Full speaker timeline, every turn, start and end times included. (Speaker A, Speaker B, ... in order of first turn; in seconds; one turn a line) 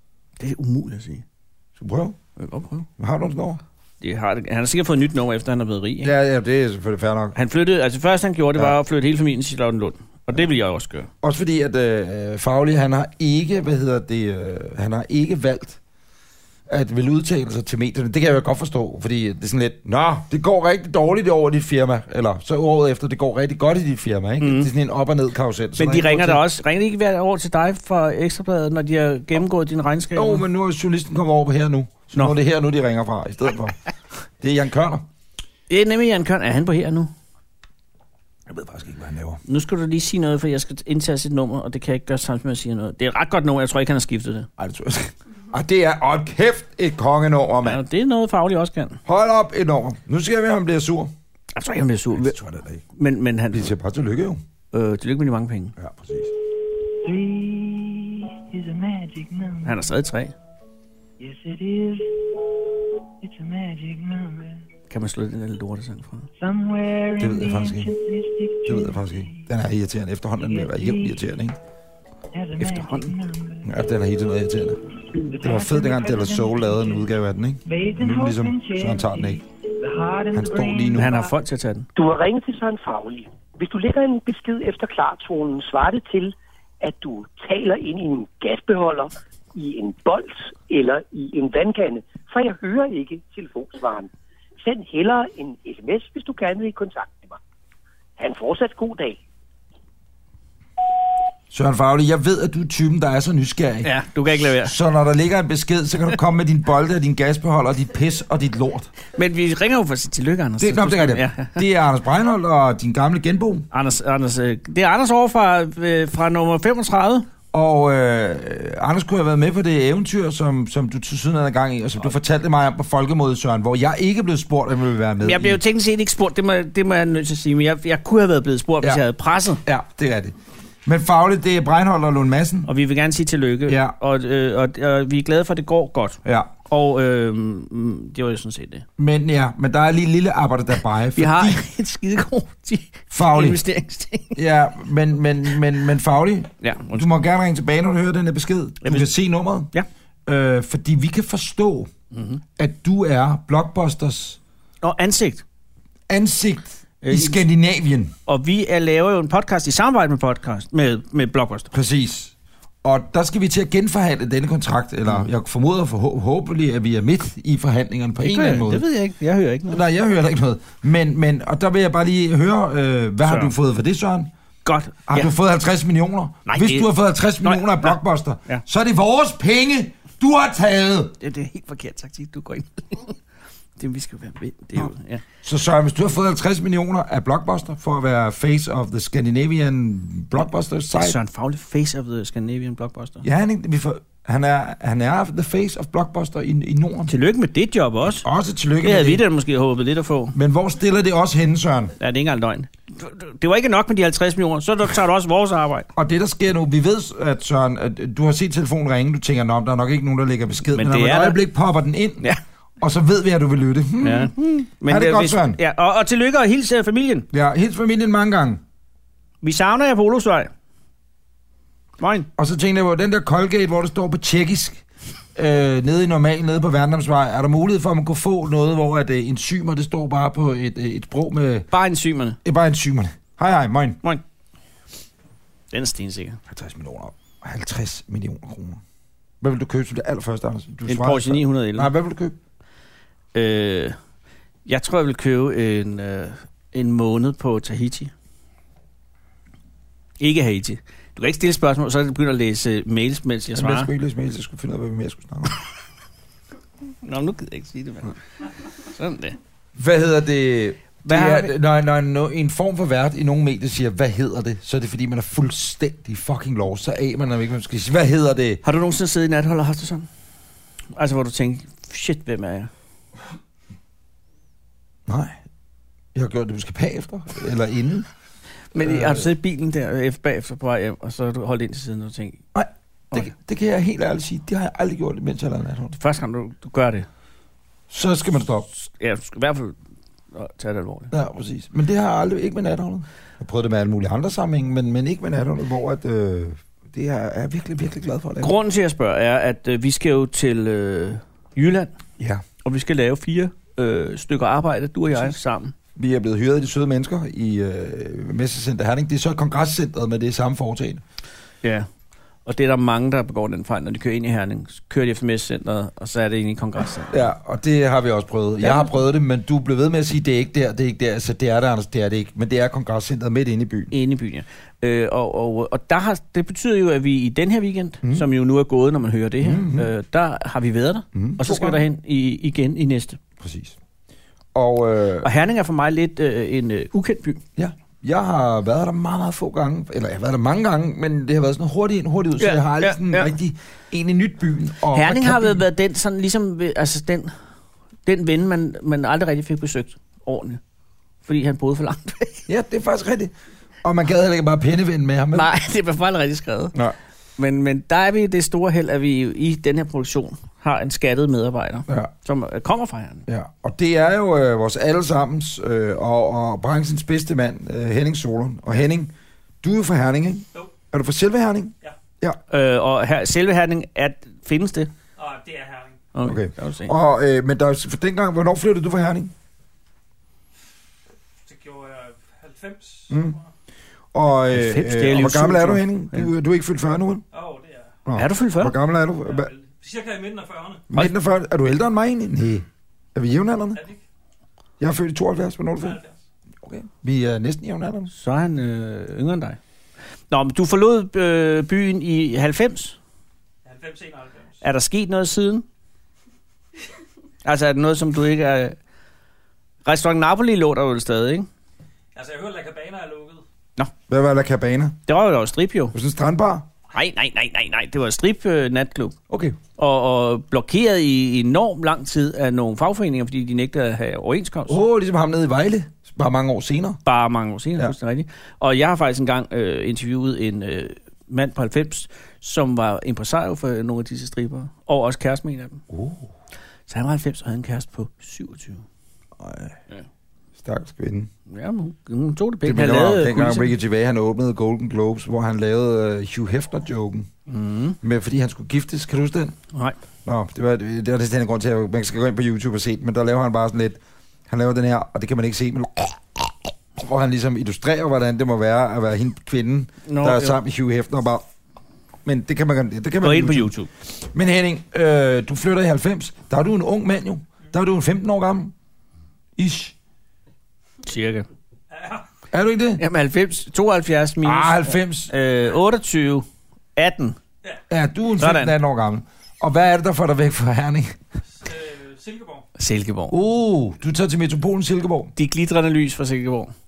Speaker A: 0.4-1.2
Speaker B: 1.8-2.2
Speaker A: 2.4-2.9
Speaker B: 3.0-3.6
Speaker A: 4.0-6.1
Speaker B: 6.0-7.3
Speaker A: 7.3-11.1
Speaker B: 11.2-15.8
Speaker B: 16.7-26.4
Speaker A: 24.4-24.7
Speaker A: 25.8-30.4
Speaker B: 30.1-33.8
Speaker B: 34.4-35.0
Speaker A: 35.7-37.1
Speaker B: 38.5-39.4
Speaker A: 39.5-44.5
Speaker B: 44.6-47.8
Speaker A: 47.6-49.0
Speaker B: 49.0-51.1
Speaker A: 51.5-52.4
Speaker B: 52.1-52.8
Speaker A: 52.9-53.7
Speaker B: 53.5-54.4
Speaker A: 54.7-55.7
Speaker B: 55.8-56.3
Speaker C: 57.0-59.8
Speaker A: 59.6-60.4
Speaker C: 61.2-62.2
Speaker C: 63.2-64.6
Speaker A: 64.9-66.3
Speaker C: 66.4-69.5
Speaker B: 67.2-67.9
Speaker B: 68.7-71.6
Speaker C: 70.4-71.3
Speaker C: 72.3-73.7
Speaker A: 72.7-73.1
Speaker B: 73.6-74.8
Speaker C: 75.1-77.1
Speaker B: 75.4-79.4
Speaker C: 77.6-81.3
Speaker B: 80.3-81.1
Speaker A: 80.9-81.9
Speaker D: 82.0-94.1
Speaker D: 94.6-97.4
Speaker D: 98.2-99.2
Speaker B: 101.5-108.9
Speaker A: 103.8-104.7
Speaker A: 109.1-111.6
Speaker B: 110.6-113.7
Speaker A: 113.7-117.3
Speaker B: 117.5-125.6
Speaker A: 125.2-129.6
Speaker B: 129.6-130.3
Speaker B: 130.8-132.7
Speaker A: 132.7-138.8
Speaker B: 133.7-133.9
Speaker B: 136.2-136.5
Speaker B: 139.0-141.6
Speaker A: 141.2-144.4
Speaker B: 143.1-143.6
Speaker B: 144.3-149.7
Speaker A: 146.6-147.1
Speaker A: 148.8-149.1
Speaker B: 150.2-151.9
Speaker A: 152.1-152.4
Speaker B: 152.6-154.4
Speaker A: 154.8-155.4
Speaker B: 156.1-158.1
Speaker A: 157.0-157.4
Speaker A: 158.2-161.7
Speaker B: 161.7-168.8
Speaker A: 168.2-169.8
Speaker B: 169.7-174.3
Speaker A: 173.2-173.5
Speaker A: 174.6-175.3
Speaker B: 175.1-181.2
Speaker A: 176.4-176.9
Speaker A: 177.4-178.6
Speaker A: 181.2-183.2
Speaker A: 183.8-185.2
Speaker B: 185.4-191.2
Speaker A: 190.9-193.2
Speaker B: 193.2-197.1
Speaker A: 197.1-198.2
Speaker B: 198.0-199.2
Speaker A: 198.8-200.3
Speaker B: 200.3-201.9
Speaker A: 202.0-205.9
Speaker B: 205.9-212.3
Speaker A: 210.7-211.4
Speaker B: 212.8-215.6
Speaker A: 214.0-217.3
Speaker B: 217.3-218.6
Speaker A: 219.4-220.5
Speaker A: 222.0-222.3
Speaker B: 222.4-224.8
Speaker B: 225.3-231.7
Speaker A: 231.7-232.4
Speaker B: 232.4-234.0
Speaker A: 235.7-236.4
Speaker B: 236.5-238.8
Speaker B: 239.4-242.4
Speaker A: 240.8-241.9
Speaker A: 243.3-244.0
Speaker A: 244.7-248.1
Speaker A: 250.2-253.9
Speaker B: 253.5-255.6
Speaker A: 257.0-259.4
Speaker B: 259.8-268.6
Speaker A: 261.0-261.5
Speaker A: 268.6-270.1
Speaker A: 270.9-272.7
Speaker B: 275.1-275.4
Speaker B: 276.1-278.1
Speaker A: 278.7-282.4
Speaker B: 278.7-279.3
Speaker B: 282.5-285.9
Speaker A: 286.0-287.1
Speaker B: 287.9-288.7
Speaker A: 288.7-289.8
Speaker A: 290.3-291.1
Speaker B: 291.1-298.5
Speaker A: 298.4-301.9
Speaker A: 302.6-305.7
Speaker B: 305.1-305.4
Speaker B: 305.9-311.0
Speaker A: 312.4-317.2
Speaker B: 317.1-323.9
Speaker A: 318.6-318.9
Speaker A: 323.9-333.2
Speaker B: 329.4-329.9
Speaker B: 331.1-331.8
Speaker B: 333.4-333.8
Speaker B: 334.5-335.3
Speaker A: 335.2-337.4
Speaker B: 337.6-345.6
Speaker A: 342.4-343.3
Speaker A: 344.9-347.3
Speaker A: 348.1-350.6
Speaker A: 351.2-352.4
Speaker B: 352.5-353.3
Speaker B: 353.8-355.5
Speaker A: 355.3-356.7
Speaker A: 357.4-363.2
Speaker B: 363.3-372.4
Speaker A: 372.5-374.9
Speaker E: 375.2-376.1
Speaker A: 376.1-376.9
Speaker B: 376.2-379.3
Speaker E: 381.4-383.4
Speaker B: 383.1-383.4
Speaker B: 384.1-387.2
Speaker A: 384.5-386.3
Speaker E: 387.3-388.0
Speaker B: 388.1-389.5
Speaker A: 388.1-388.7
Speaker E: 389.2-390.9
Speaker B: 390.9-393.8
Speaker E: 393.7-394.0
Speaker B: 394.8-396.0
Speaker E: 395.8-396.2
Speaker B: 396.6-398.1
Speaker A: 398.1-399.6
Speaker A: 400.3-403.0
Speaker E: 403.6-404.6
Speaker A: 404.6-405.6
Speaker A: 407.4-408.8
Speaker A: 409.8-411.5
Speaker E: 412.1-413.4
Speaker B: 414.1-415.0
Speaker A: 415.1-415.9
Speaker B: 415.9-416.7
Speaker A: 416.9-419.1
Speaker B: 419.3-419.6
Speaker A: 419.8-424.8
Speaker B: 424.7-427.0
Speaker A: 427.0-435.8
Speaker B: 435.9-436.3
Speaker A: 436.9-438.8
Speaker B: 439.4-439.8
Speaker B: 440.6-441.3
Speaker A: 441.5-443.7
Speaker B: 442.6-447.3
Speaker A: 447.5-448.0
Speaker B: 448.0-449.6
Speaker B: 450.2-461.4
Speaker A: 460.1-460.6
Speaker B: 462.2-468.7
Speaker A: 463.2-463.9
Speaker B: 469.6-469.9
Speaker A: 471.0-471.5
Speaker E: 471.9-472.2
Speaker B: 472.5-473.0
Speaker A: 473.0-476.4
Speaker B: 474.4-475.3
Speaker A: 477.0-477.4
Speaker B: 477.9-481.1
Speaker A: 478.4-478.7
Speaker E: 481.6-482.6
Speaker A: 482.8-483.3
Speaker B: 483.3-485.3
Speaker A: 485.4-486.7